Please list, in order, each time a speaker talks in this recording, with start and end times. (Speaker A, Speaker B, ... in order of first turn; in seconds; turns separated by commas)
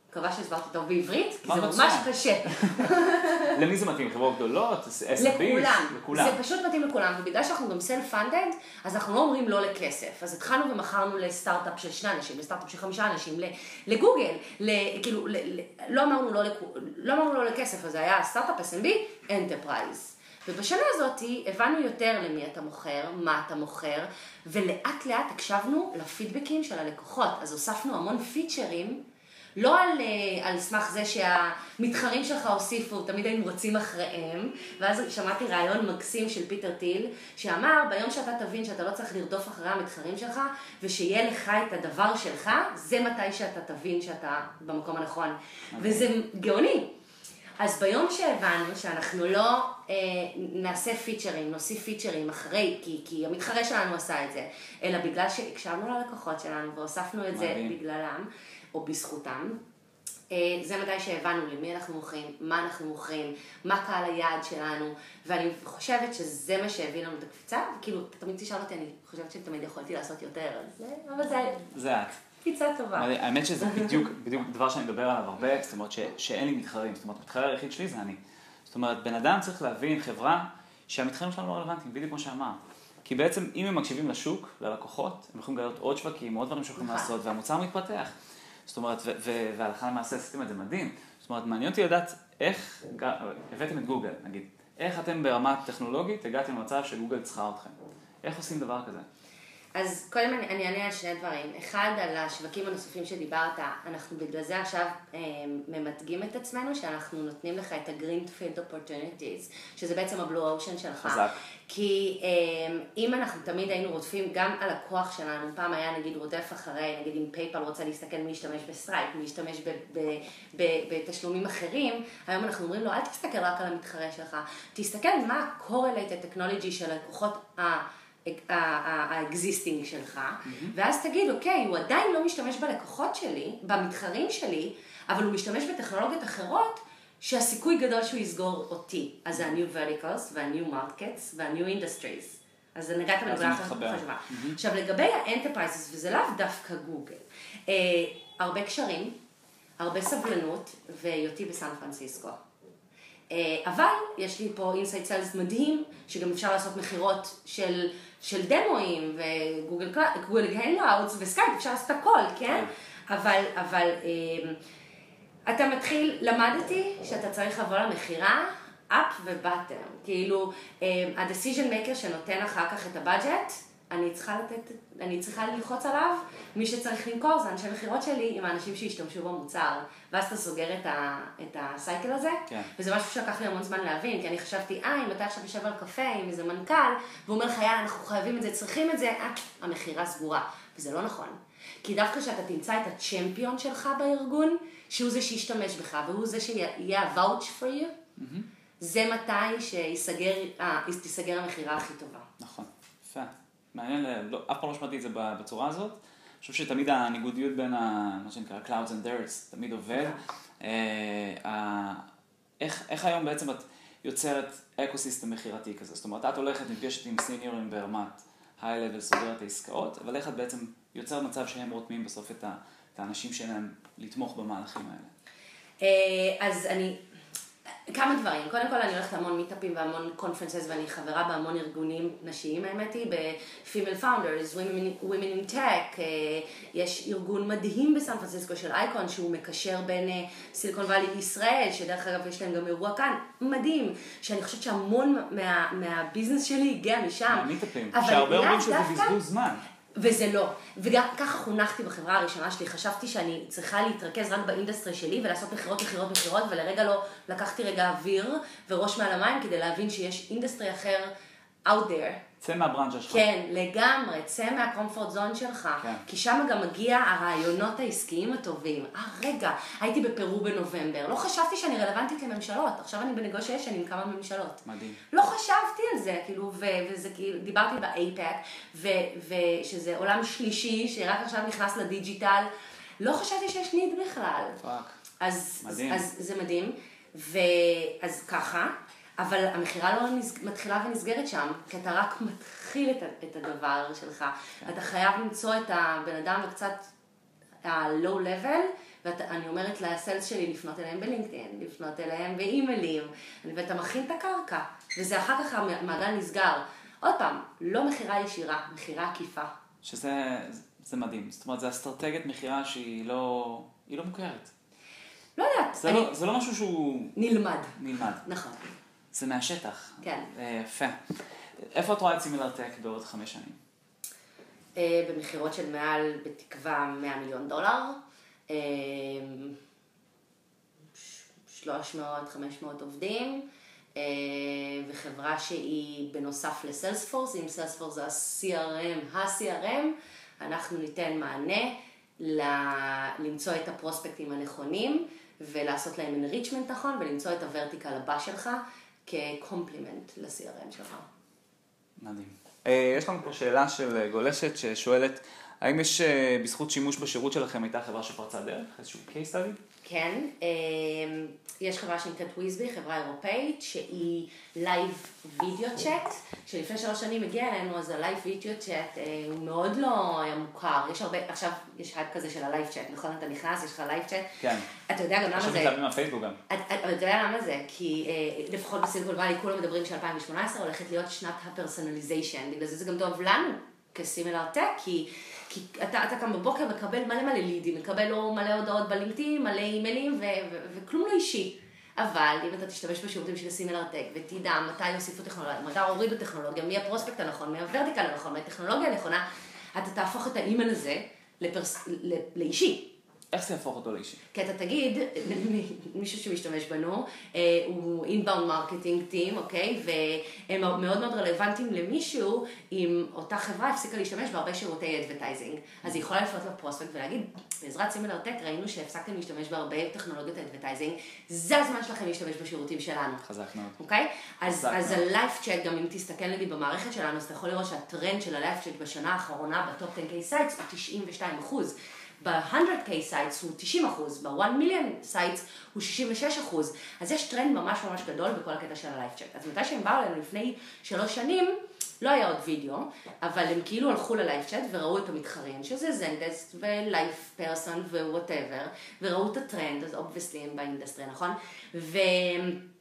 Speaker A: 0.1-3.6, Speaker B: 1.5-6.4, Speaker A: 5.2-29.0, Speaker A: 29.6-46.9, Speaker B: 45.7-46.1, Speaker A: 47.6-59.6, Speaker B: 57.3-57.8, Speaker A: 60.3-71.7, Speaker B: 71.7-72.2, Speaker A: 72.4-73.1, Speaker B: 72.9-88.1, Speaker A: 73.6-74.0, Speaker A: 86.8-87.1, Speaker B: 88.7-99.0, Speaker A: 99.8-149.1, Speaker B: 111.0-111.4, Speaker B: 130.5-130.7, Speaker B: 143.2-144.6, Speaker A: 149.8-152.4, Speaker A: 153.3-164.6, Speaker A: 165.5-197.9, Speaker B: 198.2-198.5, Speaker A: 198.8-202.3, Speaker B: 202.4-212.0, Speaker B: 212.6-225.1, Speaker A: 225.8-227.0, Speaker A: 227.9-249.2, Speaker B: 247.3-249.6, Speaker A: 249.9-261.1, Speaker A: 261.6-262.2, Speaker B: 262.4-263.2, Speaker A: 263.1-282.5, Speaker B: 274.6-275.0, Speaker A: 283.0-284.6, Speaker B: 284.6-285.0, Speaker A: 285.2-296.9, Speaker B: 285.6-286.1, Speaker A: 297.6-309.5, Speaker B: 309.8-314.5, Speaker A: 315.4-316.1, Speaker B: 315.8-317.1, Speaker A: 317.1-318.6, Speaker B: 317.8-318.2, Speaker B: 319.1-321.0, Speaker A: 320.0-320.3, Speaker B: 321.6-323.6, Speaker A: 324.8-329.6, Speaker A: 330.9-351.1, Speaker B: 352.0-359.6, Speaker A: 359.8-375.8, Speaker B: 374.4-374.7, Speaker B: 375.3-376.4, Speaker A: 376.5-402.9, Speaker B: 403.3-404.2, Speaker A: 404.3-423.2, Speaker B: 423.2-423.8, Speaker A: 423.8-452.6, Speaker B: 424.4-425.0